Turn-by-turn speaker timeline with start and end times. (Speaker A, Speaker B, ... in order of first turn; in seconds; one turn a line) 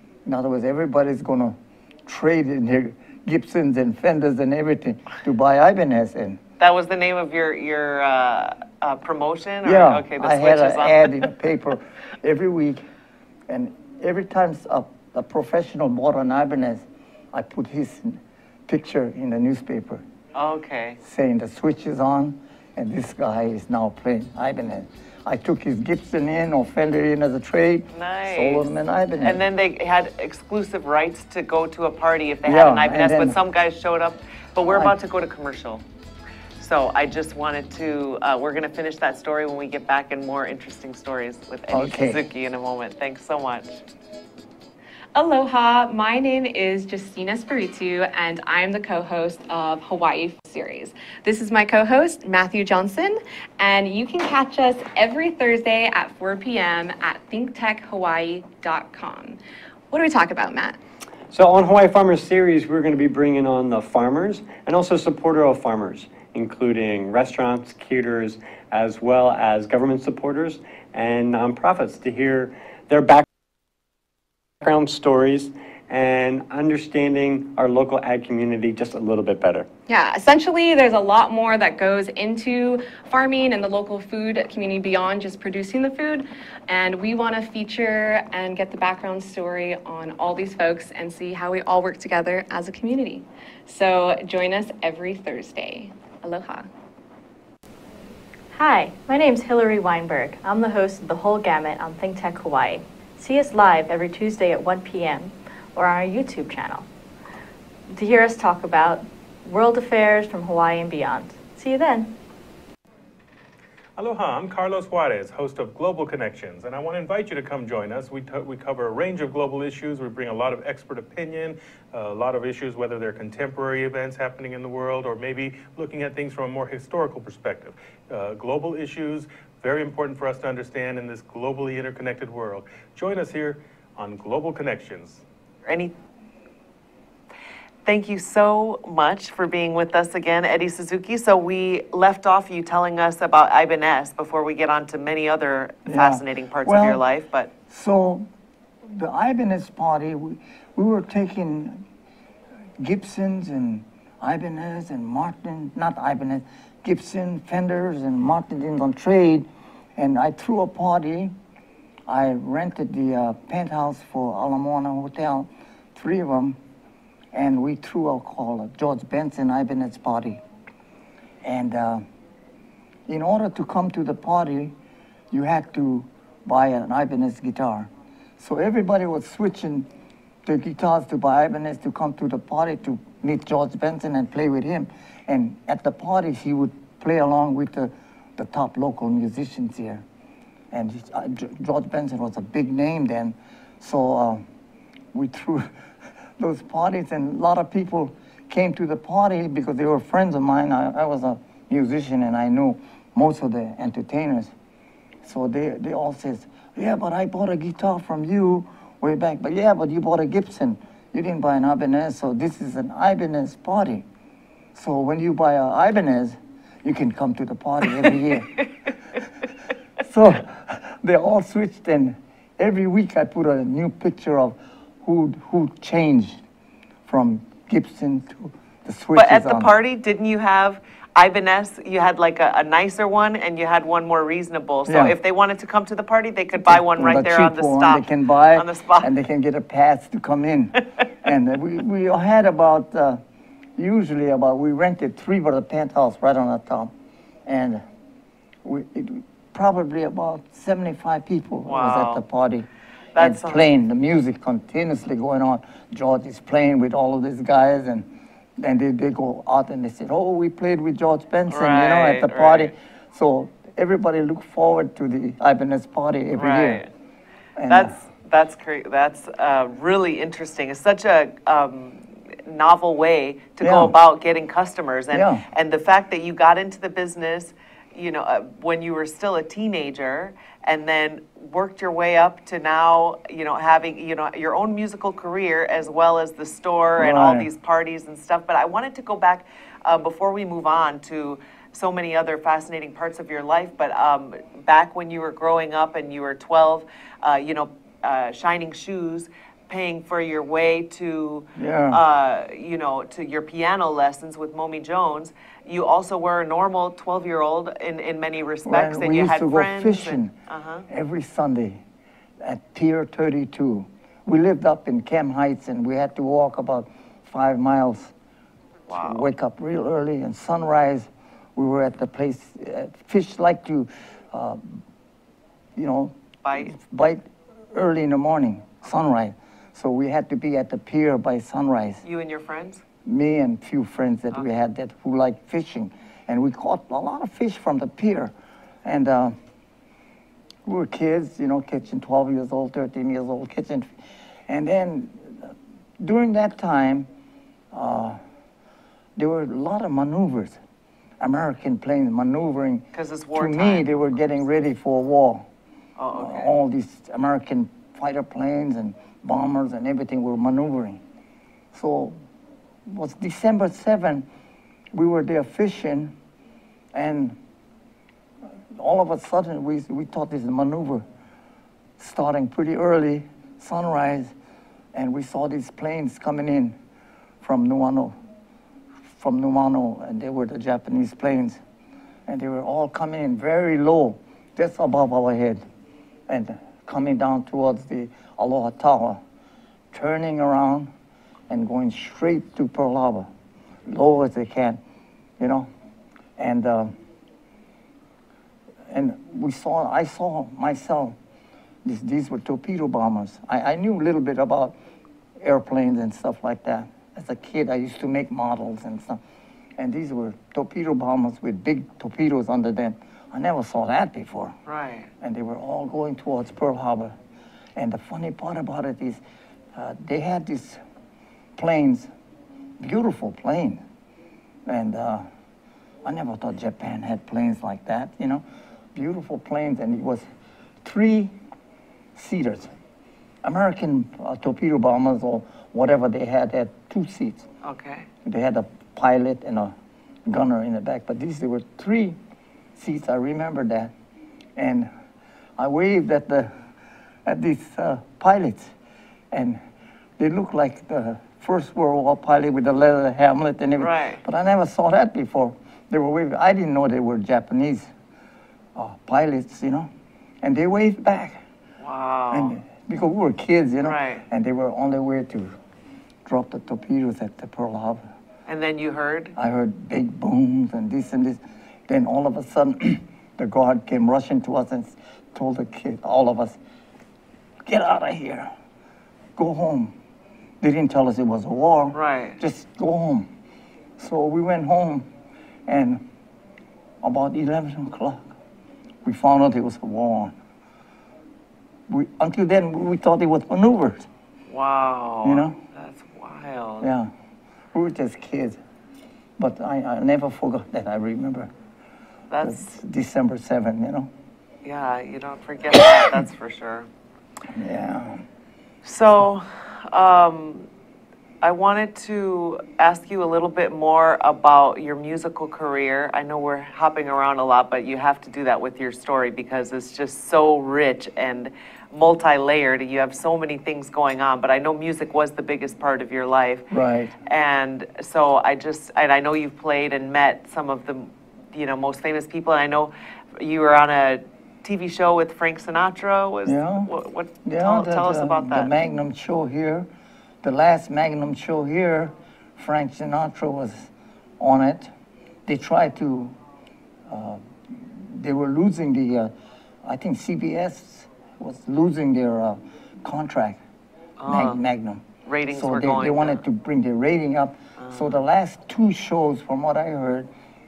Speaker A: 0.2-6.4
Speaker B: 6.6-11.3
Speaker A: 9.6-12.8
Speaker A: 13.5-20.0
Speaker B: 20.3-21.0
Speaker A: 21.0-29.4
Speaker B: 27.9-35.8
Speaker A: 32.4-33.4
Speaker A: 34.6-35.0
Speaker B: 36.6-43.8
Speaker A: 41.7-42.2
Speaker C: 45.1-59.4
Speaker C: 59.9-60.8
Speaker D: 61.3-73.2
Speaker D: 74.6-79.7
Speaker C: 79.9-96.7
Speaker E: 98.5-106.8
Speaker E: 107.9-112.2
Speaker F: 114.0-135.2
Speaker B: 135.7-135.9
Speaker B: 137.8-147.5
Speaker A: 145.8-147.0
Speaker A: 147.7-148.3
Speaker A: 148.8-151.8
Speaker A: 152.8-161.3
Speaker A: 162.1-166.6
Speaker A: 167.3-170.4
Speaker A: 171.4-172.0
Speaker A: 173.1-174.7
Speaker A: 175.3-179.9
Speaker A: 180.4-190.0
Speaker A: 190.7-194.4
Speaker A: 195.1-195.7
Speaker A: 196.4-204.5
Speaker A: 205.2-214.1
Speaker A: 214.7-218.6
Speaker A: 220.0-226.4
Speaker A: 227.1-229.7
Speaker B: 229.1-239.1
Speaker A: 234.8-235.1
Speaker A: 236.6-243.2
Speaker A: 243.8-246.9
Speaker A: 247.4-247.8
Speaker A: 248.6-266.8
Speaker B: 251.7-252.2
Speaker B: 253.1-253.7
Speaker B: 261.5-262.7
Speaker B: 266.3-266.9
Speaker A: 267.6-268.0
Speaker B: 267.7-310.8
Speaker A: 273.6-273.9
Speaker A: 275.1-275.4
Speaker A: 287.0-287.5
Speaker A: 301.5-302.0
Speaker A: 308.6-310.3
Speaker A: 310.9-311.8
Speaker A: 312.4-318.1
Speaker B: 318.9-319.3
Speaker A: 318.9-324.7
Speaker A: 325.8-332.0
Speaker B: 326.4-326.7
Speaker B: 332.0-332.8
Speaker A: 333.0-338.3
Speaker A: 338.8-339.3
Speaker A: 340.6-343.9
Speaker A: 344.5-347.1
Speaker A: 347.7-348.2
Speaker A: 349.1-350.6
Speaker A: 351.2-355.5
Speaker B: 352.9-353.9
Speaker B: 356.0-356.5
Speaker A: 356.1-361.0
Speaker A: 361.7-362.2
Speaker A: 362.9-364.3
Speaker A: 364.9-366.1
Speaker A: 366.9-367.4
Speaker A: 368.7-371.0
Speaker A: 372.0-374.3
Speaker A: 374.9-376.8
Speaker A: 377.4-378.1
Speaker A: 379.2-381.6
Speaker A: 382.3-385.6
Speaker A: 386.3-389.2
Speaker A: 389.9-390.9
Speaker A: 391.5-393.3
Speaker A: 393.9-394.8
Speaker A: 395.4-395.7
Speaker A: 396.4-396.9
Speaker A: 398.9-401.2
Speaker A: 401.8-404.7
Speaker A: 405.4-409.2
Speaker A: 409.8-414.6
Speaker B: 414.6-415.1
Speaker A: 415.2-417.1
Speaker A: 417.8-419.2
Speaker A: 419.7-420.8
Speaker A: 421.6-422.1
Speaker A: 422.8-423.8
Speaker A: 424.6-425.2
Speaker A: 426.0-428.4
Speaker A: 428.9-430.2
Speaker A: 430.8-431.3
Speaker A: 432.1-432.7
Speaker A: 433.4-437.5
Speaker B: 437.6-438.1
Speaker A: 438.2-439.7
Speaker A: 440.2-442.2
Speaker A: 442.8-443.9
Speaker A: 444.6-444.9
Speaker A: 445.6-446.5
Speaker A: 447.2-448.7
Speaker A: 449.3-449.6
Speaker A: 450.2-457.9
Speaker B: 453.8-454.2
Speaker A: 458.7-459.9
Speaker A: 460.4-461.4
Speaker B: 461.8-462.6
Speaker A: 462.3-465.6
Speaker B: 463.8-464.2
Speaker A: 466.2-468.0
Speaker B: 468.5-469.3
Speaker A: 469.4-476.6
Speaker A: 477.6-478.5
Speaker A: 479.4-479.9
Speaker A: 480.6-483.3
Speaker B: 481.9-482.4
Speaker A: 484.0-485.1
Speaker A: 485.6-486.0
Speaker A: 487.0-488.3
Speaker A: 489.0-490.3
Speaker A: 491.9-494.1
Speaker B: 494.5-496.9
Speaker A: 495.2-495.6
Speaker A: 496.8-497.1
Speaker A: 497.7-498.6
Speaker A: 499.4-501.5
Speaker B: 502.3-502.7
Speaker A: 502.4-504.1
Speaker B: 504.6-506.9
Speaker A: 507.5-508.2
Speaker B: 508.8-510.7
Speaker B: 511.4-526.7
Speaker A: 526.7-527.1
Speaker B: 527.2-538.7
Speaker A: 536.4-536.9
Speaker A: 537.4-539.9
Speaker A: 540.4-544.9
Speaker A: 545.5-546.4
Speaker A: 547.1-549.3
Speaker A: 549.8-553.6
Speaker B: 554.2-554.6
Speaker A: 554.2-560.3
Speaker B: 555.2-556.4
Speaker B: 557.8-558.1